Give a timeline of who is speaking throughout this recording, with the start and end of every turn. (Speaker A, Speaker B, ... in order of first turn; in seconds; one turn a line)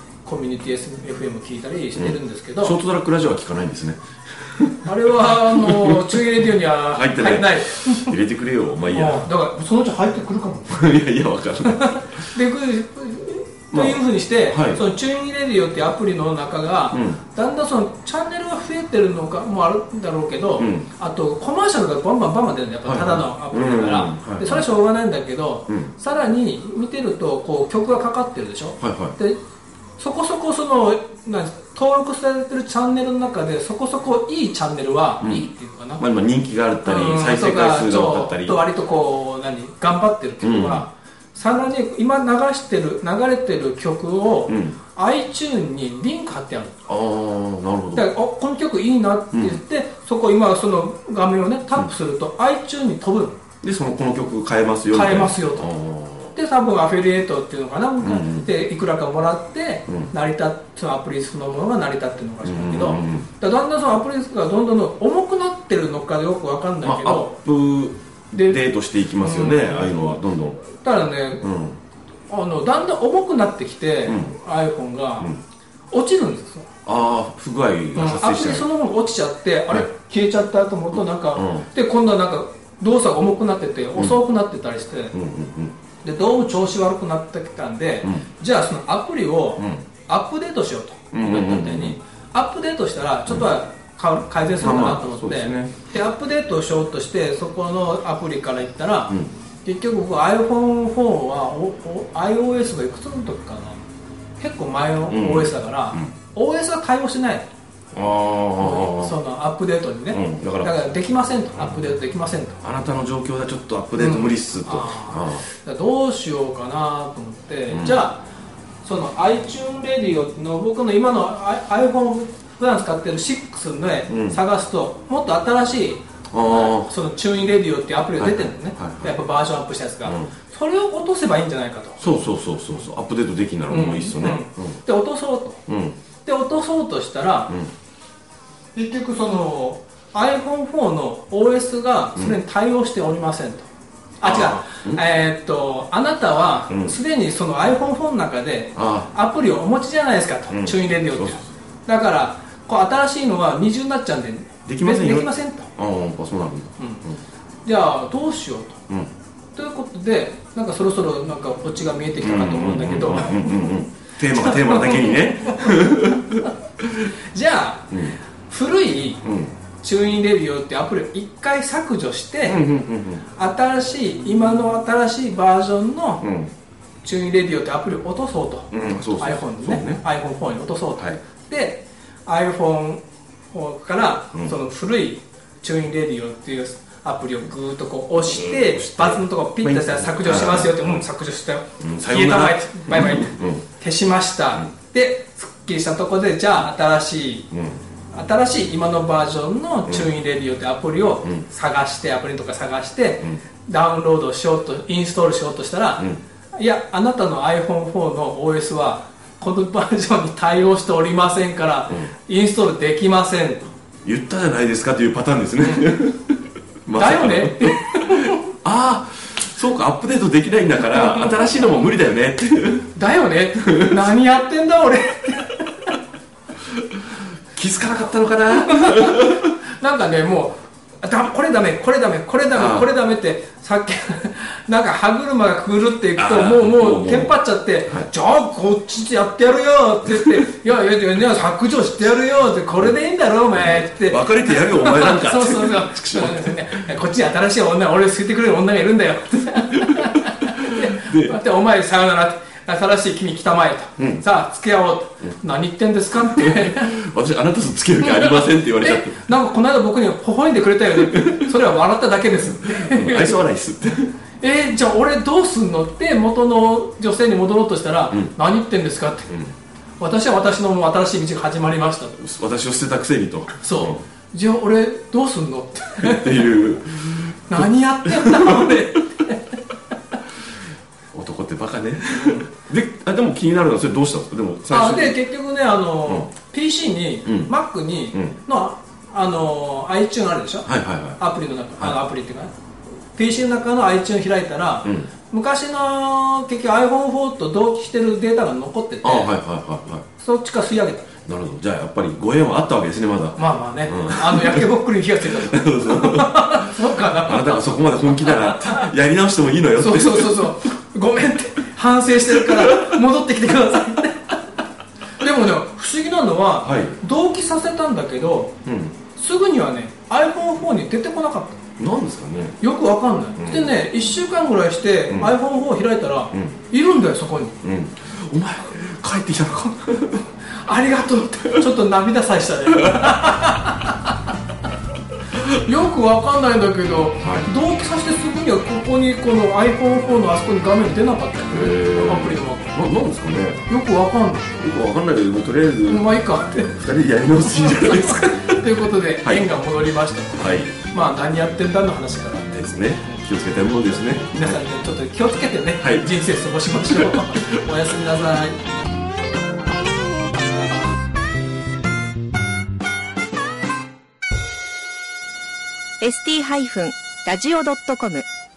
Speaker A: 0.2-2.8
Speaker B: 1.9-9.3
Speaker A: 4.8-8.2
Speaker A: 8.9-10.9
Speaker B: 10.7-12.1
Speaker A: 11.8-29.4
Speaker B: 13.7-14.8
Speaker B: 16.9-17.2
Speaker B: 20.6-20.9
Speaker B: 22.8-24.7
Speaker B: 28.8-29.1
Speaker A: 30.0-36.0
Speaker B: 35.2-35.5
Speaker B: 36.0-38.6
Speaker A: 36.8-46.8
Speaker B: 40.4-40.8
Speaker B: 44.5-44.8
Speaker B: 46.9-48.1
Speaker A: 48.0-53.4
Speaker B: 49.3-49.6
Speaker B: 53.6-56.4
Speaker A: 54.9-55.7
Speaker A: 56.3-67.4
Speaker B: 58.0-58.5
Speaker B: 62.4-63.3
Speaker B: 66.8-70.8
Speaker A: 68.3-68.6
Speaker A: 69.2-69.9
Speaker A: 70.7-71.4
Speaker B: 71.4-71.8
Speaker A: 72.3-75.3
Speaker B: 74.0-74.3
Speaker A: 75.9-76.7
Speaker B: 76.8-78.7
Speaker A: 77.9-85.1
Speaker B: 81.0-81.7
Speaker B: 85.1-85.7
Speaker A: 86.0-103.8
Speaker B: 89.6-89.8
Speaker B: 91.1-92.0
Speaker B: 94.6-95.7
Speaker A: 104.4-107.5
Speaker B: 105.1-106.1
Speaker B: 107.9-109.1
Speaker A: 108.6-112.6
Speaker B: 110.1-110.7
Speaker B: 112.6-115.4
Speaker A: 114.0-118.2
Speaker B: 117.7-118.0
Speaker A: 118.8-132.1
Speaker B: 124.1-124.4
Speaker B: 126.3-126.9
Speaker B: 128.2-129.1
Speaker B: 130.0-130.3
Speaker B: 132.0-134.8
Speaker A: 133.7-135.6
Speaker B: 135.7-136.0
Speaker A: 136.2-137.5
Speaker A: 138.7-143.7
Speaker A: 144.2-155.7
Speaker B: 144.2-145.0
Speaker B: 146.7-146.9
Speaker B: 148.8-149.1
Speaker B: 150.5-151.4
Speaker B: 154.7-157.2
Speaker A: 156.8-157.0
Speaker A: 157.6-158.8
Speaker A: 159.5-163.7
Speaker B: 162.2-166.5
Speaker A: 164.3-166.5
Speaker A: 167.3-169.2
Speaker B: 167.9-168.2
Speaker B: 169.2-169.6
Speaker A: 169.8-172.6
Speaker B: 172.4-173.2
Speaker A: 173.3-176.2
Speaker B: 176.2-176.5
Speaker A: 177.0-197.5
Speaker B: 178.7-180.0
Speaker B: 188.3-191.0
Speaker B: 191.8-193.6
Speaker B: 197.5-197.8
Speaker A: 198.1-213.7
Speaker B: 214.0-222.9
Speaker A: 215.6-215.9
Speaker A: 216.9-218.4
Speaker A: 220.9-221.5
Speaker A: 222.9-225.9
Speaker B: 223.6-224.1
Speaker B: 226.7-227.0
Speaker B: 227.5-229.5
Speaker A: 228.6-257.0
Speaker B: 232.5-232.9
Speaker B: 236.2-237.3
Speaker B: 240.1-240.4
Speaker B: 243.5-246.9
Speaker B: 249.7-251.4
Speaker B: 254.0-254.2
Speaker B: 256.1-259.2
Speaker A: 258.0-263.4
Speaker B: 260.9-261.5
Speaker B: 262.7-264.1
Speaker A: 264.4-269.4
Speaker B: 269.3-269.5
Speaker A: 270.0-272.2
Speaker B: 272.2-274.0
Speaker A: 273.6-276.5
Speaker B: 276.0-278.9
Speaker A: 277.5-279.6
Speaker B: 281.1-285.2
Speaker A: 282.1-282.4
Speaker A: 284.7-292.5
Speaker B: 287.2-287.5
Speaker B: 290.6-291.2
Speaker A: 293.1-299.3
Speaker B: 294.8-295.1
Speaker B: 299.0-300.0
Speaker A: 300.1-301.1
Speaker B: 301.2-304.7
Speaker A: 303.4-308.9
Speaker B: 305.2-310.6
Speaker A: 309.7-314.3
Speaker B: 312.3-312.9
Speaker A: 315.2-318.5
Speaker B: 316.6-317.0
Speaker B: 318.6-318.9
Speaker A: 319.1-321.6
Speaker B: 321.8-322.6
Speaker A: 322.6-327.6
Speaker B: 323.4-323.7
Speaker B: 325.1-325.3
Speaker B: 326.3-326.6
Speaker B: 327.6-330.3
Speaker A: 330.6-334.2
Speaker B: 332.8-333.3
Speaker A: 335.3-342.8
Speaker B: 337.2-337.5
Speaker B: 341.5-343.6
Speaker A: 343.7-344.6
Speaker B: 344.6-349.5
Speaker A: 345.9-346.8
Speaker A: 347.4-353.2
Speaker B: 350.4-350.8
Speaker B: 352.5-354.6
Speaker A: 354.1-358.6
Speaker B: 355.8-357.5
Speaker C: 366.0-368.2